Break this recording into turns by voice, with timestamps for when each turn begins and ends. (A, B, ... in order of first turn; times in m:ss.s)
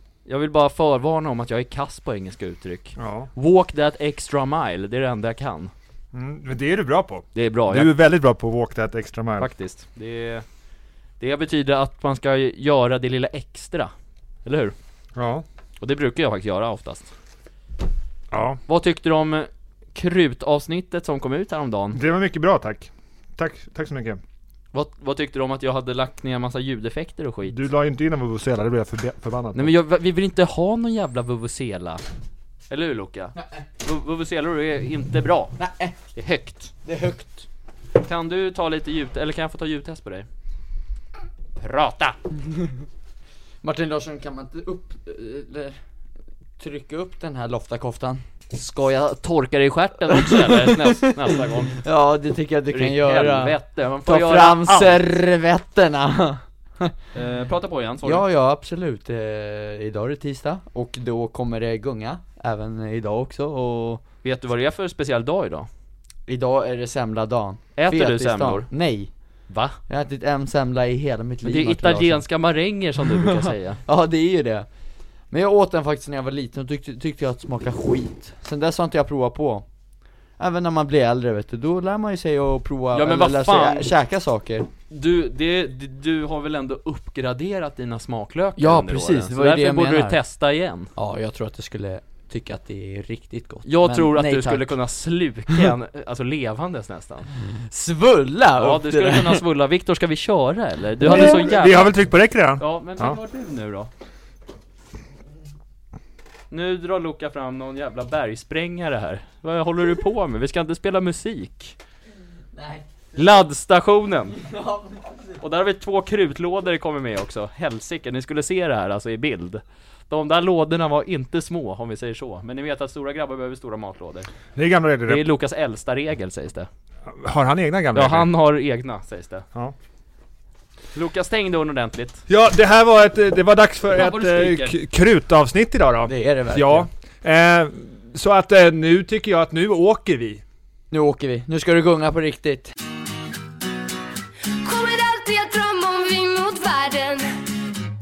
0:00.2-0:05.7 A
0:03.0-0:03.3 B
0:06.1-0:09.5 B
0:07.3-0:07.9 A
0:09.4-0:10.4 A
0:11.2-0:13.9 A
0:14.4-0:14.8 A
0:15.1-0:15.4 B
0:15.8-0:17.1 A
0:18.3-0:18.6 B
0:18.7-0:22.0 A
0:21.9-0:24.2 B
0:24.7-0:27.6 A
0:27.5-0:29.7 B
0:29.5-0:32.0 A
0:32.7-0:35.6 A
0:35.6-0:35.9 C
0:36.1-0:36.7 A
0:36.8-0:37.4 C
0:38.0-0:40.3 A
0:41.6-0:42.2 A
0:43.6-0:45.8 C
0:46.6-0:48.2 C
0:48.5-0:51.8 A
0:50.2-0:56.9 C
0:52.7-0:55.0 A
0:57.1-0:58.2 A
0:58.0-1:04.0 C
1:04.2-1:05.7 A
1:06.3-1:09.1 C
1:07.8-1:08.7 A
1:09.5-1:09.8 A
1:09.9-1:12.2 C
1:11.4-1:13.8 A
1:13.2-1:14.7 C
1:15.3-1:19.6 C
1:20.4-1:24.7 C
1:22.9-1:23.9 A
1:24.9-1:30.9 A
1:28.6-1:30.2 C
1:30.9-1:34.7 C
1:33.6-1:37.3 A
1:37.5-1:39.4 C
1:38.6-1:41.9 A
1:41.0-1:43.2 B
1:42.6-1:43.9 A
1:46.5-1:51.8 A
1:52.6-1:52.8 C
1:53.1-1:54.4 A
1:54.4-1:55.1 C
1:55.4-2:04.3 A
2:04.6-2:05.2 B
2:05.1-2:06.7 A
2:07.0-2:08.3 B
2:07.9-2:09.4 A
2:10.9-2:12.2 A
2:12.3-2:20.4 B
2:13.9-2:14.8 A
2:16.1-2:16.9 C
2:20.9-2:22.7 C
2:24.6-2:27.4 D